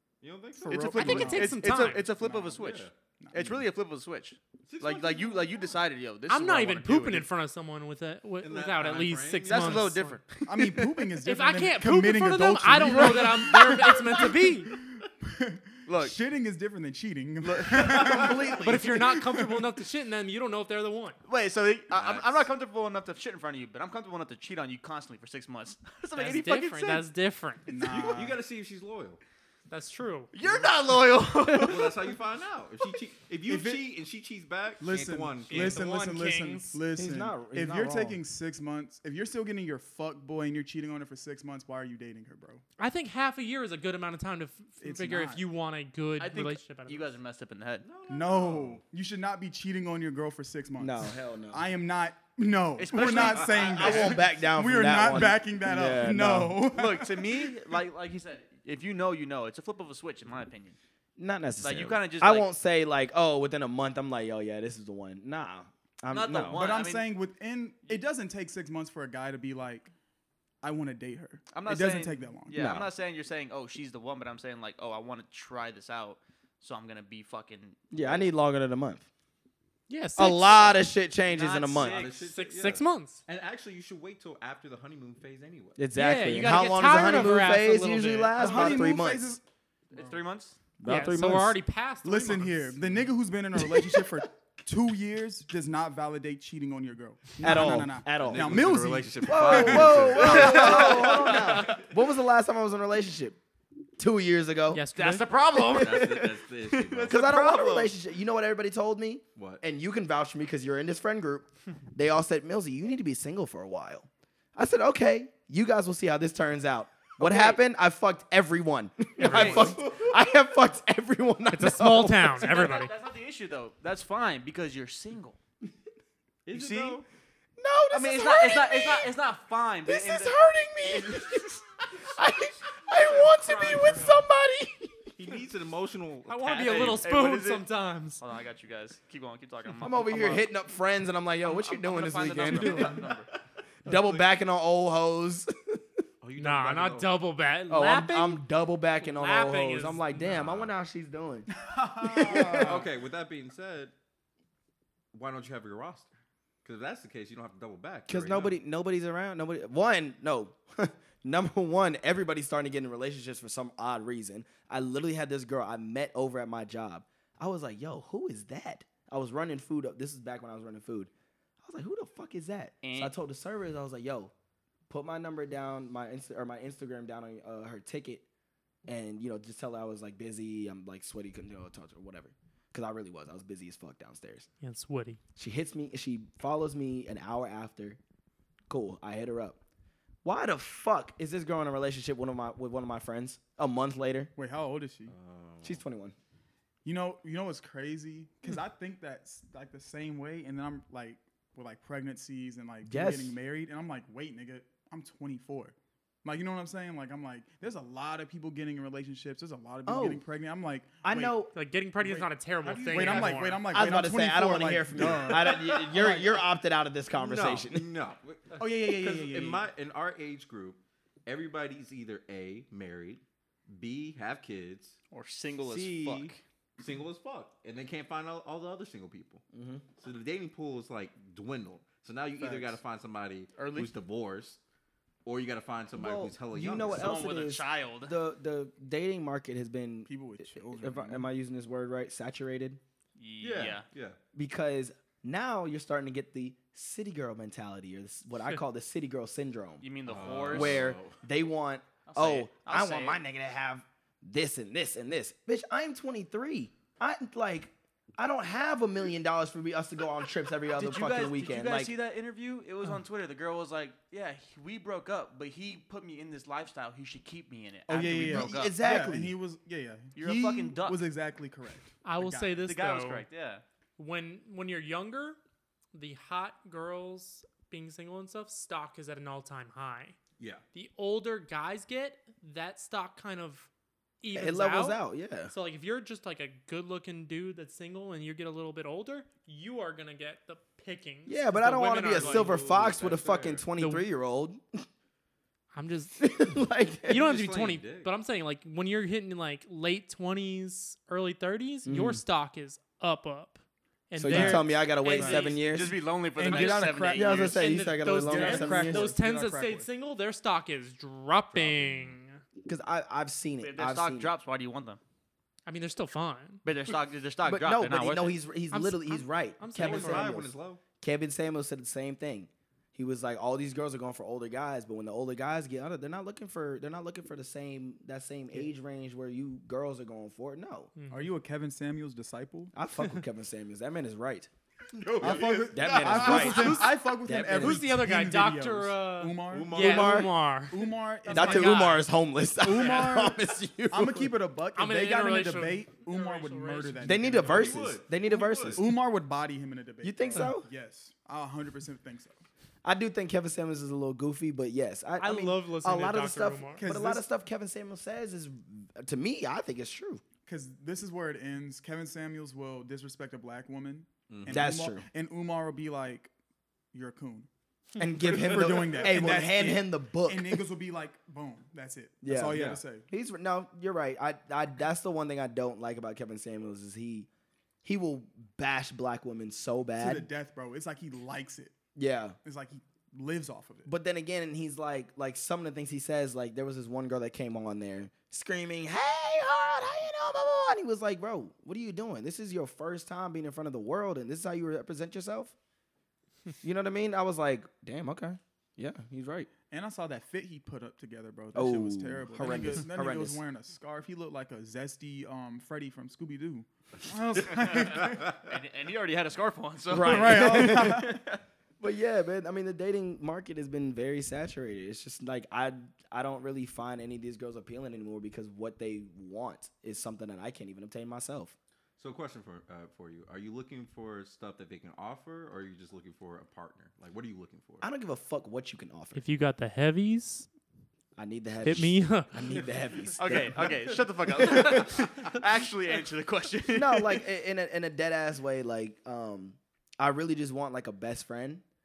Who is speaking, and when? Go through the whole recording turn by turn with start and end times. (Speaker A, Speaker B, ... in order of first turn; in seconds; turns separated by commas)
Speaker A: 0.2-1.1, Speaker B: 0.6-2.6, Speaker C: 0.7-7.2, Speaker D: 0.8-2.0, Speaker A: 2.5-2.9, Speaker B: 3.2-3.6, Speaker A: 4.7-5.7, Speaker D: 6.3-10.2, Speaker A: 8.4-9.9, Speaker C: 9.4-11.1, Speaker B: 10.4-19.6, Speaker D: 11.2-14.7, Speaker C: 15.8-16.1, Speaker C: 17.4-18.6, Speaker A: 17.8-18.3, Speaker E: 18.0-18.8, Speaker D: 18.6-21.2, Speaker C: 21.3-27.0, Speaker A: 21.9-22.5, Speaker D: 26.1-28.1, Speaker B: 27.7-28.5, Speaker A: 27.8-29.2, Speaker D: 29.7-30.3, Speaker C: 30.3-31.9, Speaker B: 30.4-30.7, Speaker A: 31.6-35.8, Speaker B: 33.4-34.0, Speaker B: 34.8-42.6, Speaker D: 35.5-36.8, Speaker C: 35.5-35.8, Speaker E: 37.0-38.2, Speaker D: 42.8-47.1, Speaker B: 44.8-45.5, Speaker C: 46.2-47.9, Speaker A: 47.8-48.8, Speaker B: 48.1-57.5, Speaker E: 50.8-51.7, Speaker C: 52.8-54.3, Speaker E: 53.6-56.6, Speaker C: 56.7-60.8, Speaker E: 61.2-66.6, Speaker C: 61.6-62.5, Speaker C: 66.1-67.1, Speaker B: 66.5-69.9, Speaker B: 70.6-72.6, Speaker C: 71.5-78.2, Speaker E: 72.5-72.9, Speaker E: 77.9-79.1, Speaker D: 79.9-80.8, Speaker E: 80.2-82.0, Speaker C: 81.3-82.3, Speaker A: 81.8-85.8, Speaker D: 82.2-83.2, Speaker E: 85.8-89.4, Speaker D: 86.0-88.3, Speaker C: 87.9-88.9, Speaker B: 88.3-89.4, Speaker C: 89.9-90.6, Speaker B: 89.9-90.2, Speaker E: 90.8-91.6, Speaker D: 90.8-92.9, Speaker B: 92.0-100.8, Speaker E: 93.6-94.0, Speaker E: 97.4-98.6, Speaker A: 98.1-101.4, Speaker E: 99.2-103.4, Speaker C: 100.1-101.8, Speaker E: 104.0-104.9, Speaker D: 104.7-105.4, Speaker C: 105.0-107.9, Speaker A: 105.6-107.2, Speaker E: 105.7-106.0, Speaker E: 107.1-122.4, Speaker A: 109.3-109.6, Speaker C: 117.2-117.6, Speaker D: 119.2-119.8, Speaker C: 119.2-119.7, Speaker A: 119.3-120.2, Speaker D: 121.5-122.9, Speaker C: 122.4-125.4, Speaker A: 126.5-127.0, Speaker C: 126.5-127.0, Speaker E: 127.6-129.1, Speaker C: 127.9-131.6, Speaker E: 129.8-131.4, Speaker E: 132.1-135.1, Speaker D: 133.0-134.2, Speaker A: 135.2-137.0, Speaker D: 136.2-138.2, Speaker C: 136.5-137.7, Speaker C: 138.2-140.5, Speaker E: 139.8-143.1, Speaker C: 141.4-143.3, Speaker E: 143.8-146.0, Speaker A: 143.9-144.2, Speaker A: 146.2-147.2, Speaker D: 146.4-148.4, Speaker E: 147.7-152.8, Speaker D: 149.0-150.0, Speaker A: 150.1-150.7, Speaker B: 151.6-152.9, Speaker A: 152.4-153.9, Speaker A: 155.1-156.1, Speaker A: 156.6-158.6, Speaker E: 158.1-171.1, Speaker E: 171.6-174.3, Speaker C: 172.8-173.1, Speaker E: 174.9-178.2, Speaker E: 178.9-184.5, Speaker D: 184.6-185.2, Speaker E: 185.3-188.0, Speaker E: 188.7-189.6, Speaker E: 190.2-194.3, Speaker B: 194.3-195.1, Speaker A: 195.1-195.8, Speaker E: 195.6-196.1, Speaker B: 196.8-211.3, Speaker E: 202.8-203.4, Speaker E: 209.8-210.2, Speaker E: 211.0-211.5, Speaker D: 211.5-213.7, Speaker B: 212.0-212.3, Speaker A: 212.6-213.5, Speaker B: 212.9-216.3, Speaker E: 213.7-217.9, Speaker A: 215.0-215.3, Speaker A: 217.1-225.0, Speaker B: 218.5-219.7, Speaker C: 225.1-226.4, Speaker A: 225.6-229.4, Speaker E: 229.5-229.8, Speaker A: 230.0-234.6, Speaker B: 232.3-232.8, Speaker C: 233.6-233.9, Speaker A: 235.2-237.2, Speaker E: 236.0-242.8, Speaker C: 236.8-238.2, Speaker B: 240.1-241.3, Speaker C: 243.2-243.8, Speaker A: 243.4-244.2, Speaker E: 244.3-249.8, Speaker C: 249.8-250.9, Speaker A: 250.1-251.2, Speaker E: 250.4-261.9, Speaker C: 252.1-253.2, Speaker C: 260.7-268.7, Speaker B: 267.9-272.6, Speaker E: 268.0-269.3, Speaker C: 270.1-271.0, Speaker D: 272.0-273.2, Speaker C: 272.6-273.6, Speaker D: 274.0-275.4, Speaker D: 275.9-280.2, Speaker D: 280.7-283.7, Speaker D: 284.2-292.5, Speaker E: 284.3-285.5, Speaker E: 291.2-294.8, Speaker A: 292.1-293.7, Speaker D: 293.8-294.1, Speaker D: 295.7-296.4, Speaker E: 296.2-297.2, Speaker D: 297.0-305.7, Speaker A: 297.1-298.1, Speaker E: 301.8-302.2, Speaker E: 304.1-306.0, Speaker B: 304.3-304.6, Speaker C: 305.1-307.6, Speaker B: 306.4-307.5, Speaker E: 306.5-309.2, Speaker D: 307.5-312.4, Speaker B: 308.2-309.9, Speaker A: 311.5-312.1, Speaker E: 312.6-314.3, Speaker C: 313.6-315.0, Speaker D: 315.6-316.6, Speaker C: 316.6-318.4, Speaker E: 317.4-330.9, Speaker D: 318.7-320.4, Speaker A: 319.7-320.8, Speaker D: 331.0-331.3, Speaker B: 331.1-332.7, Speaker E: 332.7-334.5, Speaker A: 334.9-336.5, Speaker B: 335.2-339.8, Speaker E: 335.7-337.9, Speaker C: 336.0-336.9, Speaker D: 337.5-342.0, Speaker A: 339.5-340.3, Speaker E: 339.8-340.3, Speaker B: 340.7-342.0, Speaker E: 341.3-344.3, Speaker B: 342.6-347.8, Speaker D: 342.7-343.2, Speaker D: 344.7-347.4, Speaker E: 347.0-348.8, Speaker A: 347.3-348.8, Speaker B: 348.7-352.4, Speaker E: 350.0-350.7, Speaker E: 352.8-360.2, Speaker D: 355.2-356.8, Speaker B: 356.8-357.3, Speaker B: 360.4-366.3, Speaker A: 364.3-364.8, Speaker E: 364.5-365.1, Speaker B: 366.9-367.5, Speaker E: 368.0-370.6, Speaker B: 368.0-373.1, Speaker E: 372.2-377.3, Speaker A: 372.5-372.8, Speaker E: 377.8-380.3, Speaker B: 380.0-381.7, Speaker E: 381.9-382.4, Speaker B: 382.4-383.9, Speaker E: 383.9-395.5, Speaker E: 396.6-399.5, Speaker B: 399.7-408.4, Speaker E: 401.5-403.4, Speaker C: 408.4-411.3, Speaker E: 409.9-411.2, Speaker B: 410.0-411.2, Speaker E: 411.8-421.5, Speaker A: 422.0-427.9, Speaker E: 427.8-429.2, Speaker D: 429.1-430.5, Speaker E: 431.1-433.9, Speaker D: 431.6-432.4, Speaker C: 433.2-437.2, Speaker E: 434.4-435.0, Speaker E: 436.7-441.6